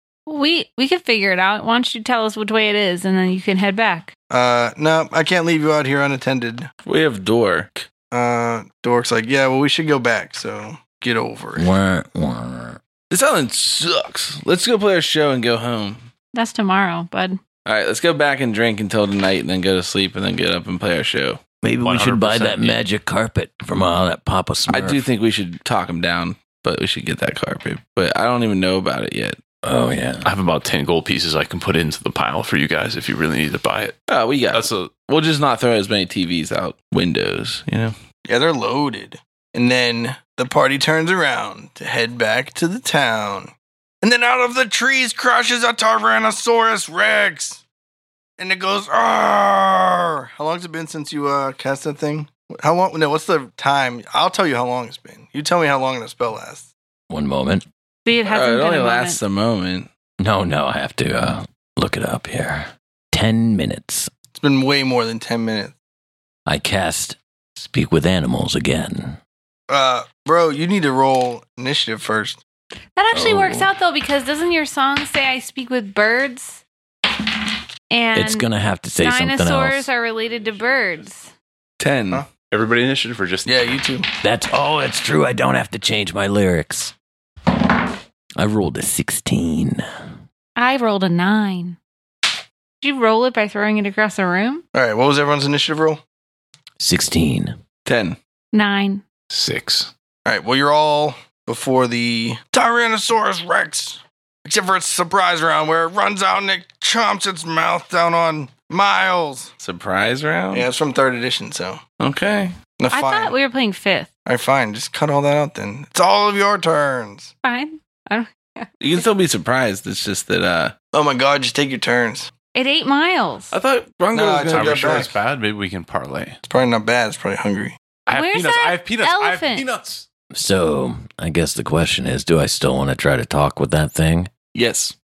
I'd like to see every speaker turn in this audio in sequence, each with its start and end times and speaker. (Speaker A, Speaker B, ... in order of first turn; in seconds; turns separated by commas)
Speaker A: 0.3-4.1, Speaker B: 4.3-6.7, Speaker C: 6.8-7.9, Speaker B: 8.1-11.7, Speaker D: 11.6-12.8, Speaker C: 13.1-16.1, Speaker A: 16.3-17.4, Speaker C: 17.6-21.4, Speaker D: 21.6-25.1, Speaker E: 21.8-22.8, Speaker C: 24.7-29.4, Speaker D: 29.6-30.3, Speaker E: 30.2-34.0, Speaker C: 34.1-38.0, Speaker E: 34.5-35.0, Speaker B: 38.3-47.6, Speaker B: 48.4-56.7, Speaker D: 57.1-57.6, Speaker A: 58.0-59.2, Speaker C: 58.3-59.9, Speaker D: 60.2-64.1, Speaker B: 64.3-65.7, Speaker D: 66.5-69.2, Speaker B: 69.7-72.4, Speaker A: 73.0-76.6, Speaker D: 73.1-73.7, Speaker A: 77.9-78.5, Speaker D: 78.1-79.9, Speaker A: 79.0-81.3, Speaker C: 81.8-82.2, Speaker E: 82.5-83.6, Speaker B: 83.5-84.1, Speaker D: 84.2-86.9, Speaker D: 88.4-89.8, Speaker A: 90.6-91.8, Speaker A: 92.8-94.6, Speaker B: 94.7-96.0, Speaker D: 96.8-97.6, Speaker C: 97.9-98.2, Speaker A: 98.5-99.0, Speaker E: 99.3-99.9, Speaker B: 100.2-109.5, Speaker C: 109.6-110.7, Speaker B: 110.5-111.8, Speaker C: 112.0-112.6, Speaker B: 112.8-113.3, Speaker A: 112.9-114.1, Speaker B: 114.3-117.3, Speaker A: 117.4-119.1, Speaker C: 118.8-120.8, Speaker B: 120.9-122.3, Speaker A: 122.5-123.5, Speaker E: 123.5-123.8, Speaker C: 123.6-125.1, Speaker B: 124.1-125.1, Speaker E: 124.5-126.4, Speaker B: 126.5-127.8, Speaker E: 128.1-130.1, Speaker A: 128.1-129.7, Speaker D: 130.3-134.3, Speaker C: 134.5-135.0